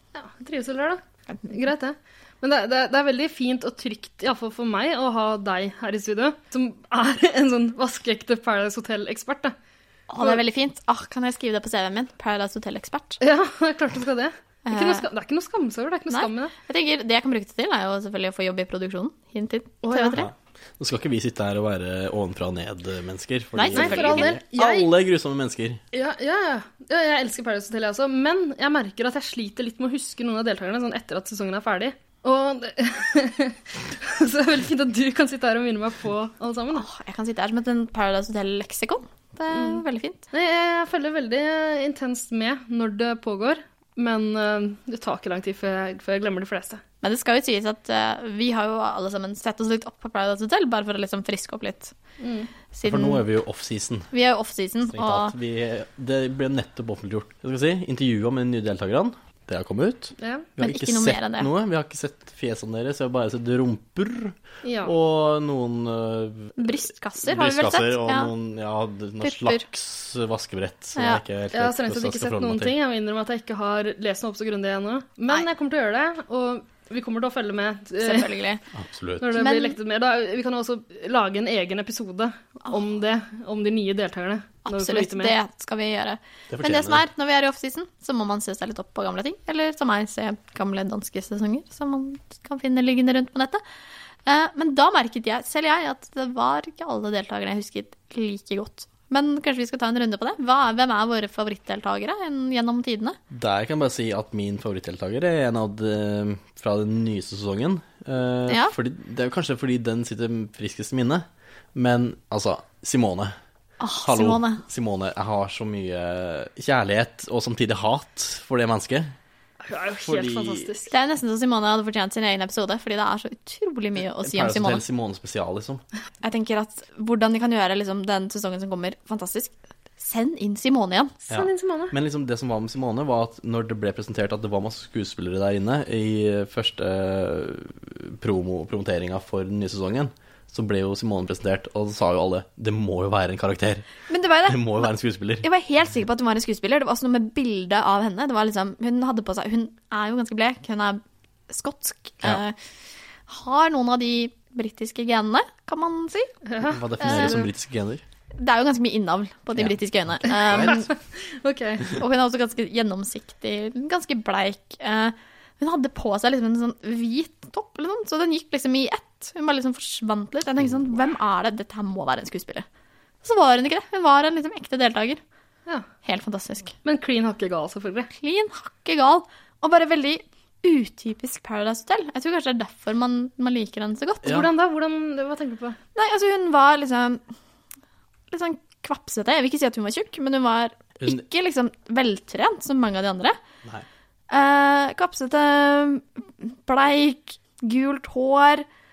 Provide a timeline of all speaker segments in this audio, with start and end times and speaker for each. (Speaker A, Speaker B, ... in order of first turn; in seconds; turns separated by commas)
Speaker A: 0.1-9.5, Speaker B: 10.1-13.2, Speaker A: 13.2-16.5, Speaker B: 14.7-15.1, Speaker B: 16.1-20.2, Speaker A: 19.8-20.2, Speaker C: 20.1-25.8, Speaker B: 23.5-24.4, Speaker A: 23.7-24.9, Speaker A: 25.9-36.8, Speaker B: 36.7-40.2, Speaker A: 39.5-46.8, Speaker B: 47.0-51.9, Speaker A: 52.2-52.5, Speaker B: 52.7-53.2, Speaker C: 52.8-54.1, Speaker B: 54.1-55.3, Speaker C: 54.9-72.7, Speaker A: 60.2-60.5, Speaker B: 60.6-61.5, Speaker A: 64.6-64.9, Speaker B: 66.6-68.3, Speaker B: 69.2-69.7, Speaker B: 71.0-71.2, Speaker A: 71.5-78.3, Speaker B: 78.0-78.6, Speaker C: 78.7-79.4, Speaker A: 79.2-85.3, Speaker B: 79.3-79.8, Speaker B: 84.7-93.6, Speaker C: 86.5-87.0, Speaker B: 94.2-103.2, Speaker C: 103.3-113.3, Speaker B: 108.5-108.7, Speaker B: 113.8-114.6, Speaker C: 114.0-119.2, Speaker A: 119.6-120.9, Speaker C: 120.0-120.7, Speaker B: 120.9-124.8, Speaker C: 124.2-125.8, Speaker B: 126.2-131.1, Speaker A: 131.2-131.9, Speaker C: 131.3-143.8, Speaker B: 144.1-152.6, Speaker C: 144.4-145.4, Speaker B: 153.3-156.4, Speaker A: 156.4-157.4, Speaker C: 156.6-158.0, Speaker B: 157.0-157.4, Speaker B: 158.4-160.9, Speaker C: 159.6-160.8, Speaker A: 160.5-161.9, Speaker B: 161.9-172.6, Speaker B: 173.2-175.2, Speaker B: 176.0-176.7, Speaker A: 176.8-178.1, Speaker B: 178.1-184.4, Speaker C: 184.2-184.5, Speaker A: 184.2-185.8, Speaker B: 185.9-187.2, Speaker B: 188.3-193.4, Speaker C: 191.0-191.2, Speaker B: 194.3-198.7